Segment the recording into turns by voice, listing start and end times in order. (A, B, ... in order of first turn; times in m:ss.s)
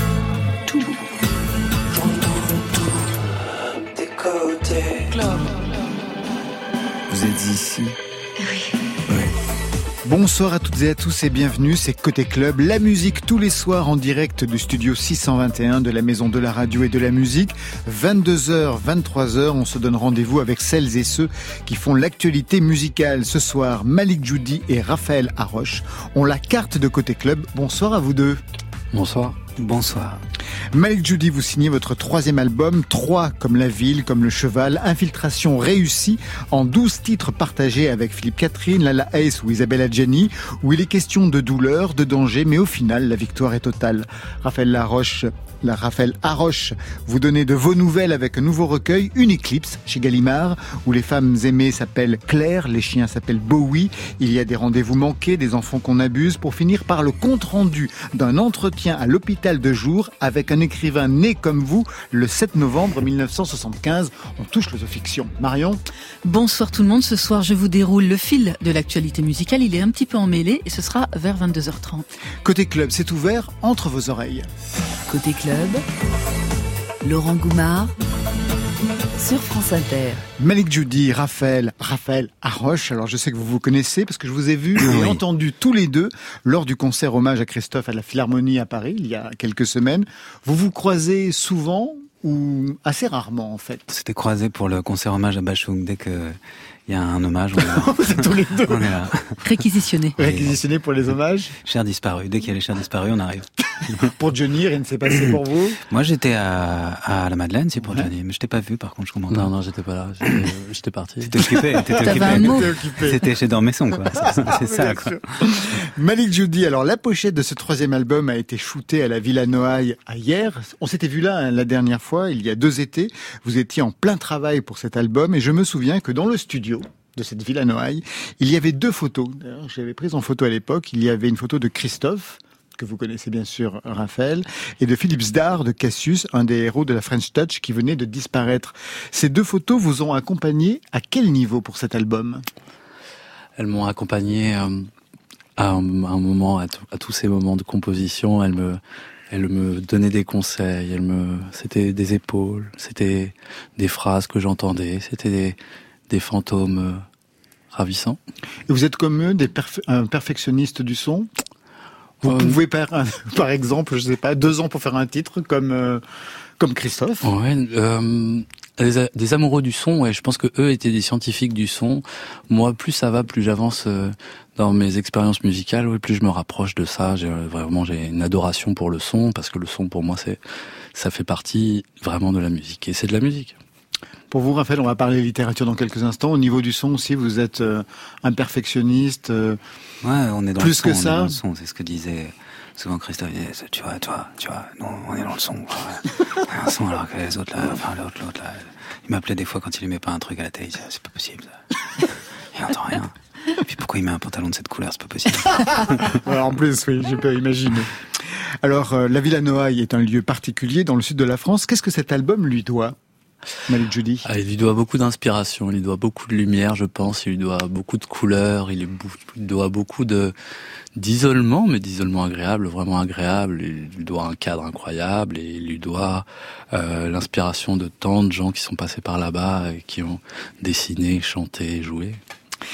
0:02.0-0:03.0 A
0:10.0-0:28.4 B
0:28.9-0:29.4 C
0:29.6-0:30.2 D
0:30.7-1:05.8 B
1:06.2-1:12.1 E
1:12.4-1:14.5 B
1:15.1-1:15.4 A
1:15.2-1:15.8 E
1:17.1-1:17.9 A
1:19.2-1:20.2 A
1:20.4-1:33.8 B
1:24.8-1:25.2 D
1:33.9-1:39.4 D
1:37.6-1:38.9 B
1:39.4-1:40.2 E
1:40.2-1:40.6 D
1:40.2-1:41.6 B
1:41.6-1:44.1 D
1:44.1-1:45.8 B
1:45.9-1:49.5 D
1:47.8-1:48.1 B
1:49.3-1:51.4 C
1:51.2-1:55.2 D
1:51.8-1:53.2 B
1:52.0-1:52.7 E
1:54.2-2:22.4 B
2:23.6-2:24.9 C
2:25.6-2:28.8 C
2:29.3-2:35.6 C
2:36.1-2:37.0 C
2:37.7-2:38.2 C
2:38.7-2:41.3 B
2:42.2-2:46.0 B
2:42.3-2:42.6 C
2:46.6-2:47.3 B
2:47.2-3:00.4 C
3:00.9-3:03.6 C
3:04.3-3:09.6 B
3:10.0-3:26.1 D
3:10.6-3:11.4 B
3:26.1-3:33.0 B
3:33.7-3:34.2 B
3:34.2-3:40.4 C
3:41.0-3:52.2 C